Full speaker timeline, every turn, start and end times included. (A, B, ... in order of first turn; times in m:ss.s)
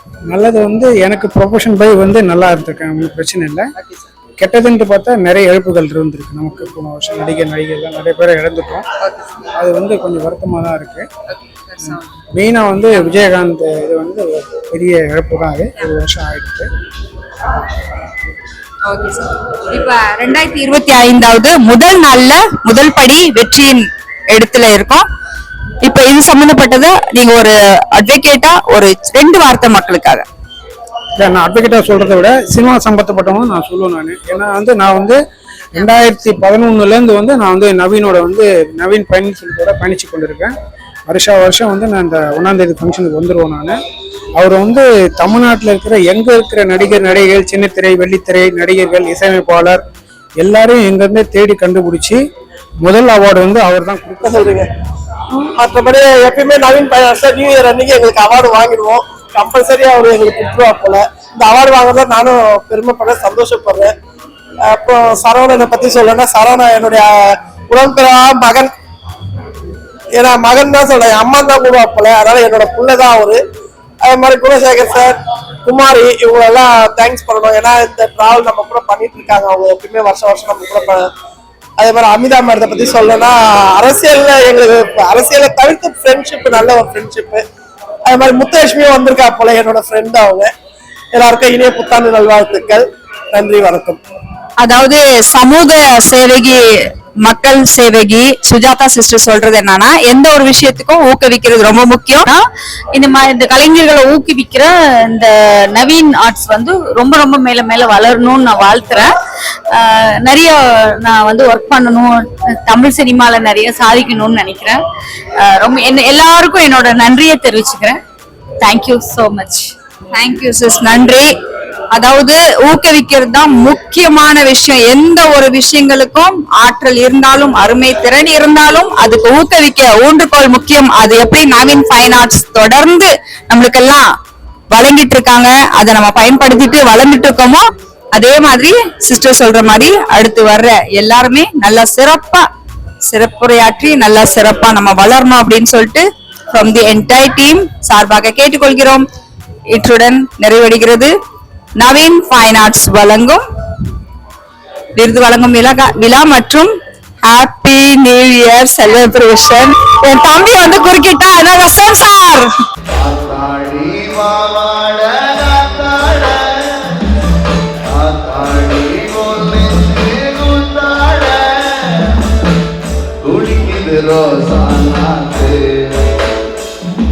0:00.3-0:03.7 A
0:04.4-0:08.8 A
0:09.5-0:11.0 A
0:11.8-0:16.7 A
0:18.9-0:23.8 B
0:24.3-0:25.0 B
0:25.8-0:30.2 B
0:31.2-0:35.2 A
0:35.8-0:40.5 A
0:41.1-0:43.8 A
0:44.4-0:49.8 A
0:50.4-0:52.2 A
0:52.8-0:54.3 A
0:54.2-0:54.7 C
0:55.6-1:03.9 C
1:04.7-1:07.1 C
1:07.7-1:08.7 C
1:10.2-1:13.4 C
1:14.0-1:15.1 C
1:15.6-1:21.0 C
1:21.8-1:27.4 C
1:28.1-1:30.5 C
1:31.1-1:34.0 C
1:34.6-1:36.6 B
1:37.2-1:42.3 B
1:46.1-1:49.1 D
1:52.9-1:54.8 D
1:56.1-1:57.9 D
2:00.1-2:01.3 B
2:01.9-2:14.0 B
2:14.7-2:22.4 B
2:23.0-2:29.0 B
2:29.7-2:31.1 B
2:31.8-2:33.4 B
2:35.0-2:36.7 B
2:37.3-2:42.5 B
2:43.1-2:43.9 E
2:48.0-2:51.3 E
2:53.3-2:55.4 E